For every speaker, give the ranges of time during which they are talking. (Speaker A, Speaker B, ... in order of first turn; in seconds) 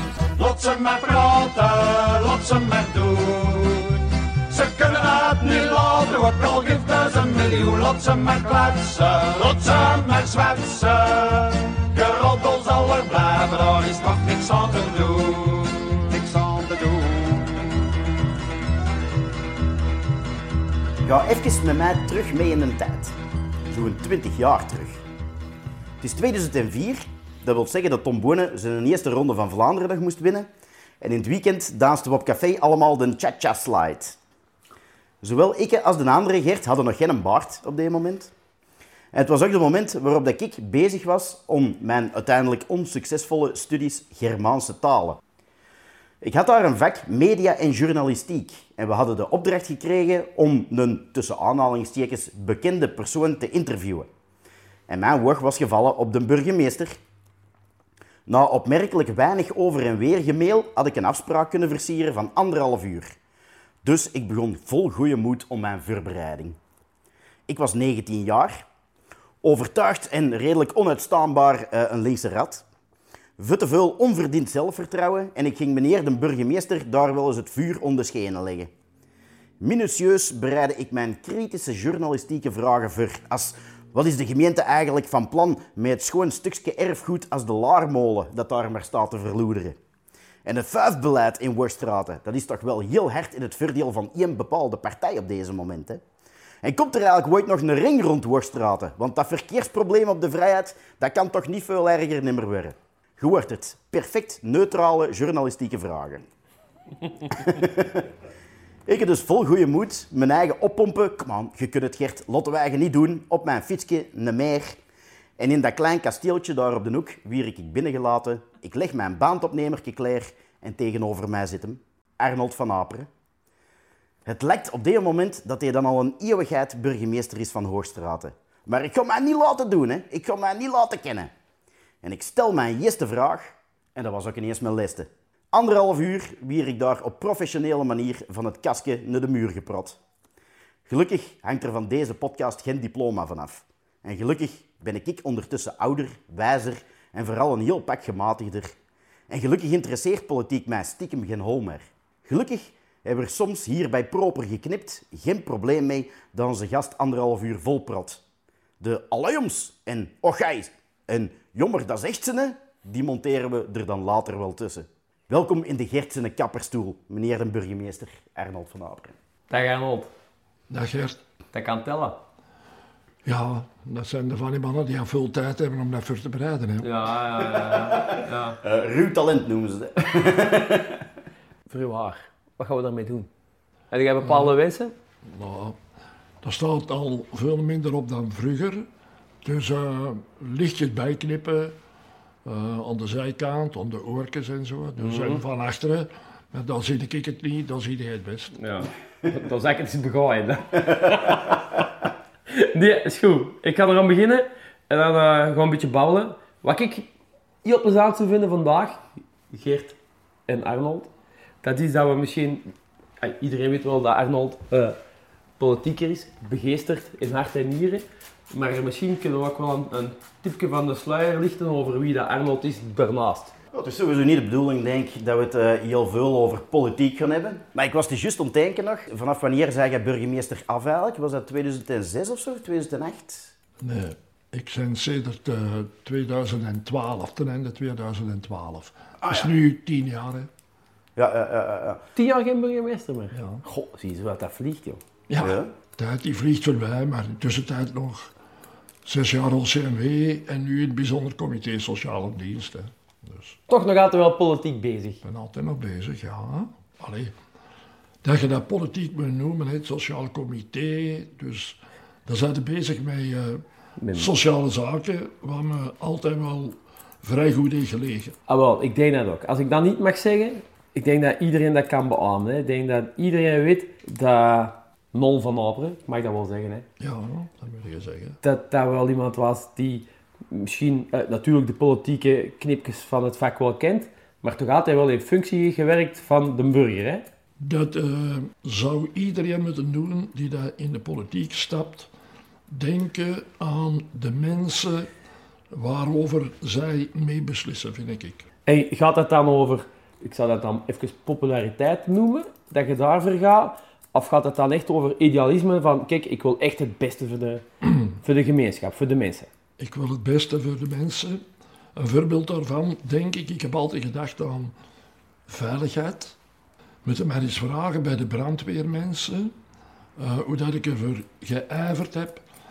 Speaker A: 0.3-17.9
Speaker B: 21.0-23.1, 23.7-25.0, 26.0-30.5, 31.0-34.1, 35.2-38.3, 39.1-45.2, 46.2-54.1, 54.9-57.0, 58.3-63.1, 63.8-66.6, 67.5-68.6, 69.4-72.6, 73.4-78.7, 79.6-89.8, 90.4-96.0, 96.6-106.2, 107.3-108.1, 108.8-114.8, 115.4-123.1, 124.2-131.3, 132.0-140.0, 140.9-148.7, 149.3-158.2, 158.8-169.1, 177.6-181.0, 223.7-233.5, 239.2-239.5, 241.2-242.0, 245.4-245.7
Speaker C: 169.5-170.1, 171.5-172.2, 176.8-178.6, 181.7-183.3, 183.9-184.9, 195.0-195.4, 198.5-201.6, 202.5-207.1, 207.6-209.9, 210.5-211.1, 211.6-215.0, 215.6-223.5, 242.2-245.0, 253.7-255.2, 264.0-264.3, 268.5-276.9, 278.4-287.2, 298.6-309.5
Speaker D: 170.7-171.2, 173.2-176.9, 184.2-184.5, 185.2-185.8, 186.4-188.9, 189.4-191.8, 192.4-198.5, 233.8-240.5, 243.3-243.6, 245.3-248.3, 249.0-253.6, 255.2-257.3, 258.2-268.3, 277.0-278.4, 287.6-292.1, 292.7-295.1, 295.7-298.4, 309.8-311.4, 311.9-314.7, 315.5-316.4, 317.0-319.5, 320.1-322.4